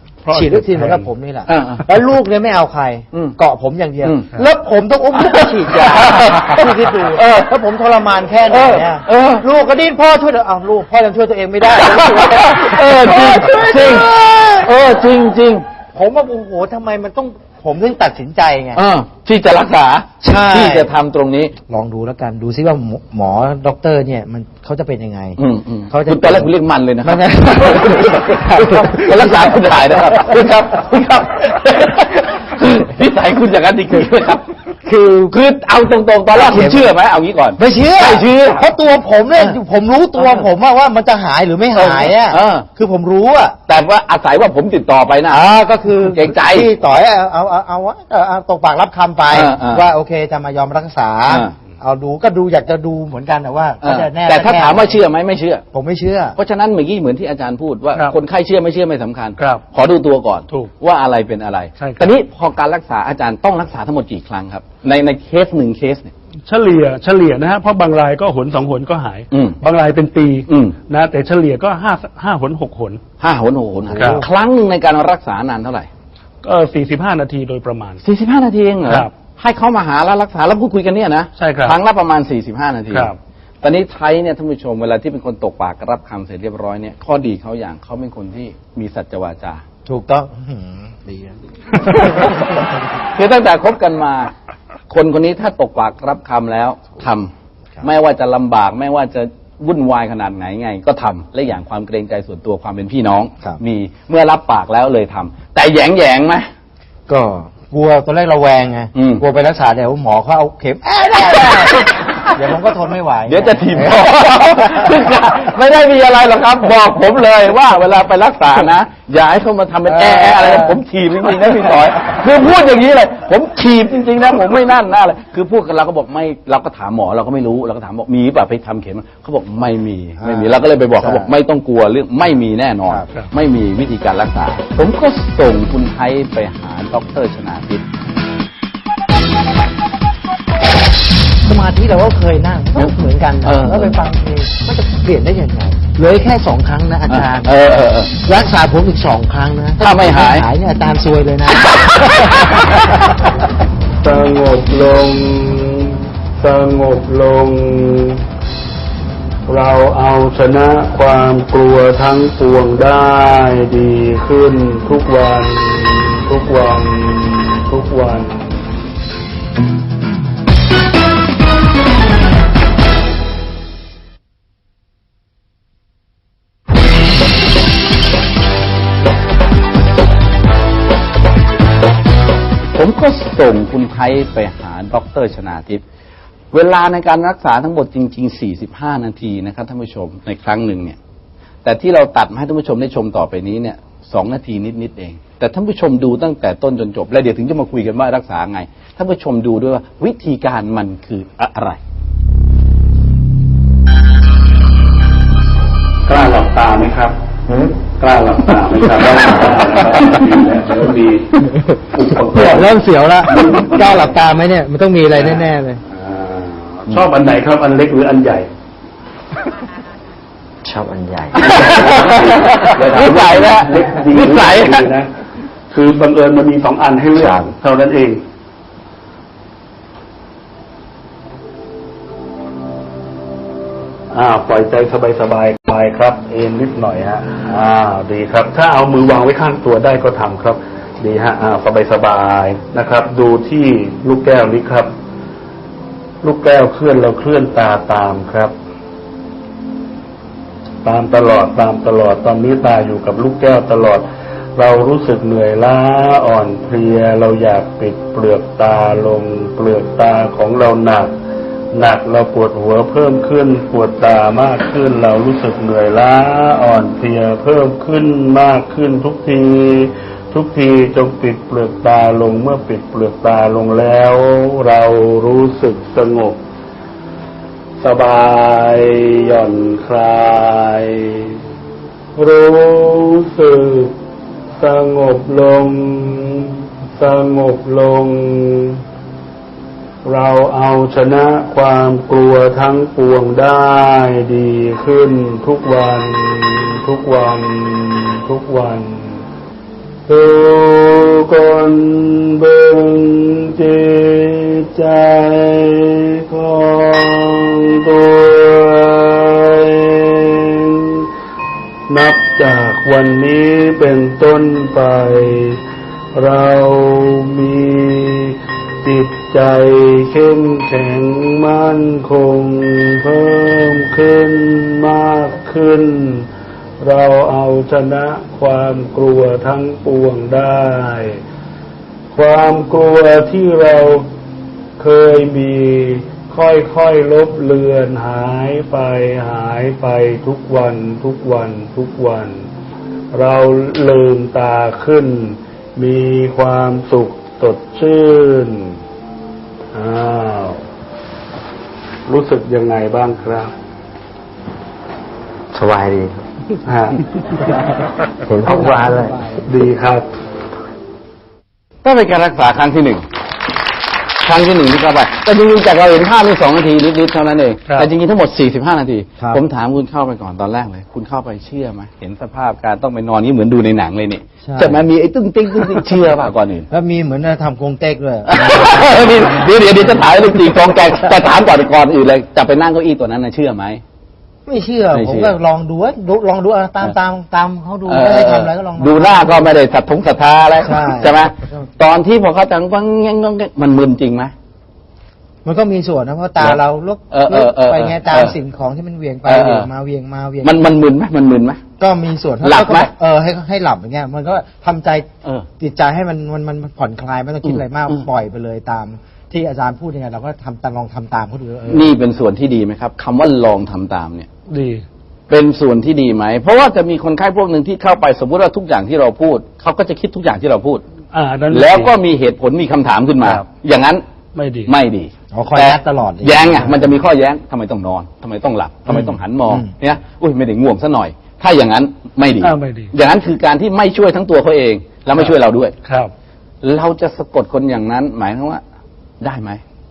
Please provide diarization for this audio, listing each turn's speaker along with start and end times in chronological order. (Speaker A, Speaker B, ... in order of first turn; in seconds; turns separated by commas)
Speaker A: 0.2-1.1, Speaker B: 0.3-14.7, Speaker C: 1.5-1.9, Speaker C: 5.2-7.5, Speaker C: 8.5-9.4, Speaker C: 11.7-15.7, Speaker B: 15.9-18.8, Speaker C: 18.7-21.5, Speaker B: 20.2-20.9, Speaker B: 21.7-25.4, Speaker C: 25.4-34.5, Speaker B: 25.9-26.5, Speaker B: 27.0-30.4, Speaker B: 34.8-35.4, Speaker C: 35.3-38.7, Speaker B: 36.3-36.9, Speaker B: 37.6-43.6, Speaker C: 40.2-40.4, Speaker C: 41.7-42.7, Speaker C: 43.7-45.4, Speaker B: 45.3-55.0, Speaker C: 46.0-46.7, Speaker C: 49.3-49.8, Speaker C: 51.3-51.5, Speaker C: 53.8-55.6, Speaker B: 55.7-56.4, Speaker C: 56.4-66.1, Speaker A: 59.4-59.6, Speaker A: 61.8-62.1, Speaker A: 66.5-73.0, Speaker C: 69.3-69.6, Speaker C: 70.5-70.8, Speaker C: 73.2-75.9, Speaker A: 74.0-74.2, Speaker A: 76.4-78.0, Speaker C: 78.0-89.6, Speaker A: 78.8-79.1, Speaker A: 81.3-81.8, Speaker A: 82.9-83.2, Speaker B: 89.8-92.6, Speaker C: 91.7-94.3, Speaker C: 94.9-106.5, Speaker B: 107.1-115.0, Speaker C: 108.9-109.2, Speaker C: 111.1-112.2, Speaker C: 113.2-137.8, Speaker B: 119.9-120.8, Speaker B: 130.2-131.3, Speaker B: 141.4-147.5, Speaker C: 143.4-144.0, Speaker C: 147.1-148.1, Speaker B: 148.2-152.1, Speaker C: 149.8-150.5, Speaker C: 151.6-153.0, Speaker A: 154.0-158.2, Speaker A: 159.4-168.4, Speaker C: 182.7-185.8, Speaker C: 186.5-191.0, Speaker C: 191.6-201.8, Speaker A: 206.1-207.1, Speaker A: 208.0-212.7, Speaker B: 212.2-215.8, Speaker A: 213.3-214.0, Speaker A: 215.2-218.5, Speaker B: 220.6-221.7, Speaker C: 221.4-224.9, Speaker A: 221.4-225.1, Speaker A: 225.7-228.2, Speaker B: 227.2-227.5, Speaker A: 234.1-244.9, Speaker A: 246.2-248.5, Speaker A: 250.8-261.1, Speaker A: 261.7-276.4, Speaker A: 277.8-281.4, Speaker A: 282.1-284.0, Speaker A: 284.5-288.8, Speaker A: 290.0-299.2, Speaker A: 300.1-311.0, Speaker A: 311.9-315.6, Speaker A: 316.1-326.3, Speaker A: 326.8-331.2, Speaker A: 332.1-334.1, Speaker A: 334.8-342.5, Speaker A: 343.1-348.8, Speaker A: 349.7-350.6, Speaker A: 352.1-353.5, Speaker B: 355.5-356.2, Speaker A: 356.6-357.0, Speaker B: 358.2-359.5, Speaker A: 359.4-360.1, Speaker C: 361.8-363.0, Speaker C: 364.2-376.7, Speaker B: 374.4-374.8, Speaker B: 376.7-379.9, Speaker C: 378.3-383.8, Speaker B: 384.5-389.5, Speaker C: 384.9-385.3, Speaker C: 387.9-394.3, Speaker B: 390.6-391.7, Speaker B: 395.4-400.5, Speaker C: 397.1-398.3, Speaker C: 399.2-399.7, Speaker C: 400.4-401.6, Speaker B: 401.8-405.1, Speaker C: 402.4-402.9, Speaker B: 405.6-411.9, Speaker C: 407.4-408.0, Speaker C: 411.6-414.3, Speaker A: 414.5-414.8, Speaker C: 415.3-420.8, Speaker A: 421.1-421.9, Speaker C: 421.5-424.0, Speaker A: 424.3-424.7, Speaker C: 424.7-435.7, Speaker B: 425.3-426.8, Speaker B: 428.9-429.7, Speaker A: 432.4-432.9, Speaker A: 435.8-436.1, Speaker C: 436.6-438.6, Speaker C: 439.2-439.6